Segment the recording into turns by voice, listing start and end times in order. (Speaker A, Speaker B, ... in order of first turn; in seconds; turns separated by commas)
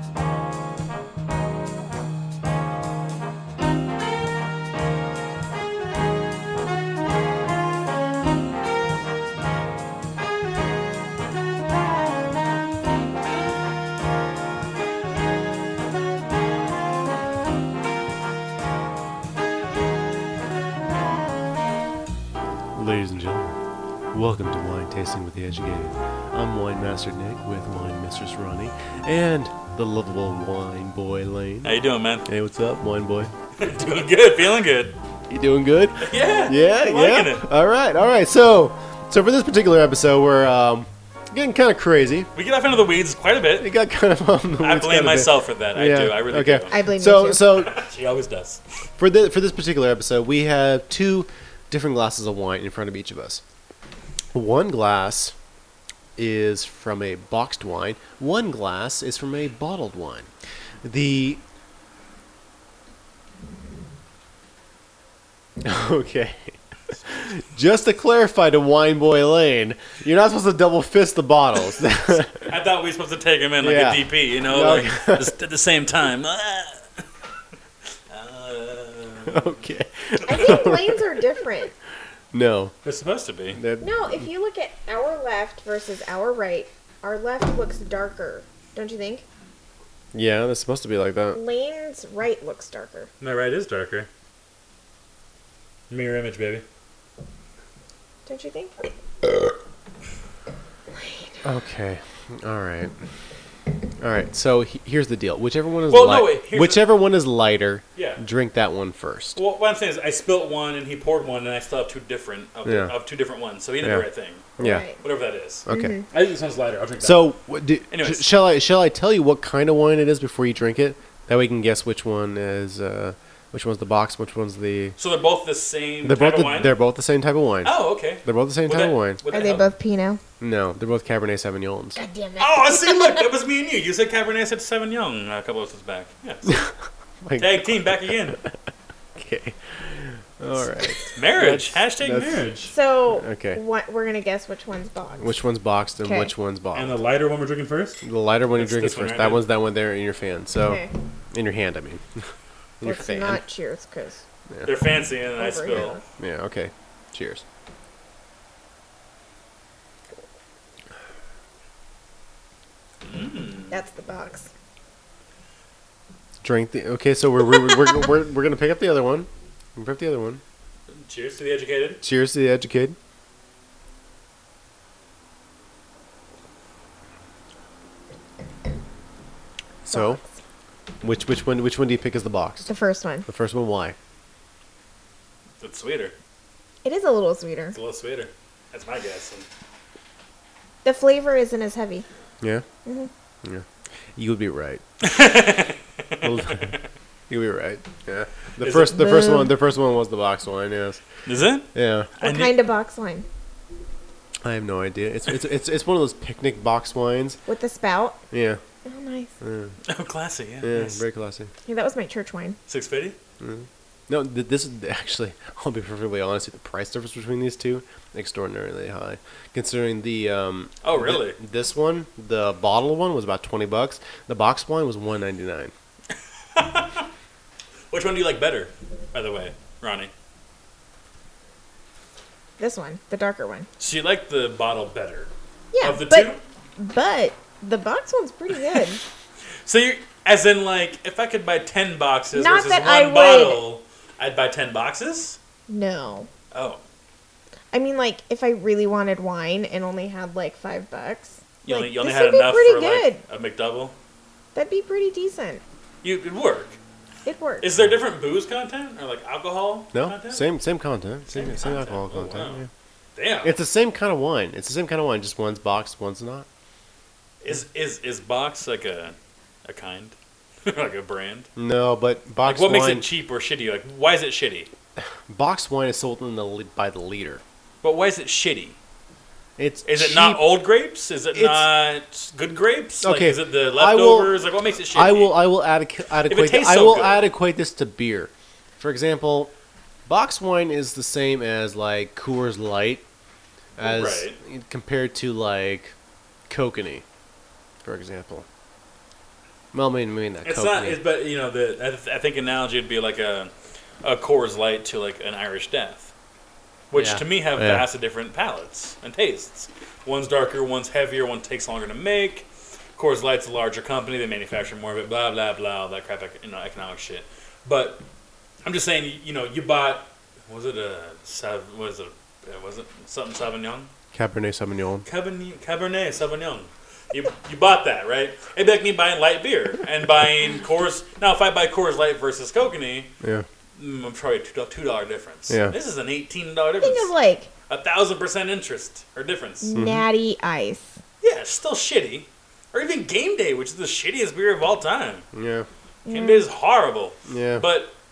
Speaker A: 22.8-23.6, Speaker A: 24.1-33.3, Speaker B: 31.6-32.2, Speaker B: 33.6-35.0, Speaker A: 35.3-42.3, Speaker B: 36.0-37.5, Speaker B: 42.3-43.7, Speaker A: 43.6-47.8, Speaker B: 44.6-46.7, Speaker C: 46.7-47.4, Speaker B: 47.5-48.6, Speaker A: 49.0-53.4, Speaker A: 54.3-55.3, Speaker A: 56.2-60.3, Speaker A: 60.8-61.4, Speaker A: 65.6-72.5, Speaker B: 72.4-77.0, Speaker A: 73.6-75.3, Speaker B: 78.1-79.5, Speaker A: 79.2-81.0, Speaker B: 80.2-80.5, Speaker C: 80.2-81.7, Speaker A: 82.3-82.7, Speaker B: 82.8-83.6, Speaker A: 83.5-84.3, Speaker C: 83.8-89.3, Speaker A: 90.1-91.4, Speaker C: 91.3-93.1, Speaker B: 93.2-94.1, Speaker B: 95.9-96.6, Speaker C: 98.3-98.9, Speaker C: 101.0-101.3, Speaker A: 101.4-102.9, Speaker A: 104.0-109.4, Speaker B: 105.9-106.9, Speaker B: 108.0-108.2, Speaker B: 109.4-117.3, Speaker A: 112.6-112.9, Speaker A: 114.6-114.9, Speaker C: 114.6-115.0, Speaker A: 115.7-116.0, Speaker C: 115.7-116.1, Speaker A: 117.0-125.0, Speaker B: 117.9-118.3, Speaker B: 125.0-126.7, Speaker A: 126.0-129.2, Speaker B: 127.6-129.7, Speaker C: 129.3-130.2, Speaker A: 130.4-132.0, Speaker C: 132.0-133.3, Speaker B: 132.4-136.6, Speaker A: 136.4-136.7, Speaker A: 137.2-137.7, Speaker B: 137.4-138.4, Speaker A: 139.2-142.4, Speaker B: 141.1-142.7, Speaker C: 142.7-145.3, Speaker A: 143.2-143.6, Speaker A: 145.2-146.9, Speaker C: 146.0-146.3, Speaker B: 146.7-148.0, Speaker A: 148.0-153.4, Speaker B: 148.6-149.4, Speaker C: 150.6-150.9, Speaker C: 152.8-154.2, Speaker B: 154.6-156.0, Speaker C: 155.4-156.0, Speaker A: 155.7-157.4, Speaker B: 163.0-163.8, Speaker C: 163.7-164.5, Speaker A: 166.4-170.4, Speaker B: 170.9-172.0, Speaker A: 172.0-172.9, Speaker A: 179.8-180.2, Speaker C: 179.9-180.2, Speaker A: 181.0-182.7, Speaker C: 182.7-183.2, Speaker A: 183.2-183.9, Speaker B: 185.6-186.1, Speaker C: 186.8-187.8, Speaker B: 187.7-189.5, Speaker C: 190.8-192.1, Speaker C: 192.8-193.1, Speaker A: 193.4-194.8, Speaker B: 195.0-196.8, Speaker A: 196.2-196.7, Speaker A: 197.3-201.0, Speaker B: 198.6-199.0, Speaker C: 198.9-199.5, Speaker B: 201.2-202.5, Speaker A: 201.7-202.1, Speaker C: 202.2-203.3, Speaker A: 204.4-207.4, Speaker C: 207.5-208.2, Speaker A: 208.3-208.6, Speaker C: 208.8-209.3, Speaker A: 209.4-209.8, Speaker B: 209.8-211.0, Speaker A: 210.6-211.5, Speaker C: 211.7-212.6, Speaker B: 212.7-213.2, Speaker A: 213.4-225.7, Speaker B: 220.8-221.4, Speaker B: 226.5-227.1, Speaker B: 227.9-230.1, Speaker C: 232.6-233.7, Speaker B: 233.8-236.4, Speaker C: 235.7-239.0, Speaker B: 239.6-245.4, Speaker C: 242.3-243.6, Speaker C: 245.7-246.3, Speaker B: 246.5-246.8, Speaker C: 247.7-253.2, Speaker B: 251.6-253.9, Speaker C: 254.5-255.6, Speaker B: 256.0-256.8, Speaker C: 257.2-257.7, Speaker B: 257.6-260.4, Speaker A: 259.9-262.7, Speaker B: 261.3-262.6, Speaker B: 263.1-263.5, Speaker A: 263.4-266.5, Speaker B: 267.4-271.5, Speaker A: 271.6-273.0, Speaker B: 272.4-274.7, Speaker A: 275.3-277.4, Speaker B: 277.8-278.8, Speaker A: 279.6-280.4, Speaker B: 279.8-285.3, Speaker A: 281.3-281.7, Speaker A: 283.0-284.3, Speaker A: 284.9-289.5, Speaker B: 286.2-287.3, Speaker A: 290.1-293.0, Speaker A: 293.8-295.9, Speaker B: 293.8-294.4, Speaker A: 296.5-297.0, Speaker A: 297.8-298.4, Speaker A: 299.7-301.0, Speaker B: 300.4-303.5, Speaker B: 304.0-306.1, Speaker B: 306.9-318.0, Speaker A: 306.9-307.9, Speaker B: 318.6-323.9, Speaker A: 324.1-325.1, Speaker B: 325.1-333.1, Speaker A: 333.2-333.4, Speaker B: 333.8-337.1, Speaker A: 335.5-335.8, Speaker C: 336.8-337.5, Speaker B: 337.7-339.7, Speaker C: 339.6-341.0, Speaker A: 339.8-340.1, Speaker B: 341.2-345.2, Speaker A: 345.3-345.7, Speaker C: 346.1-346.5, Speaker B: 346.1-347.9, Speaker A: 347.3-347.6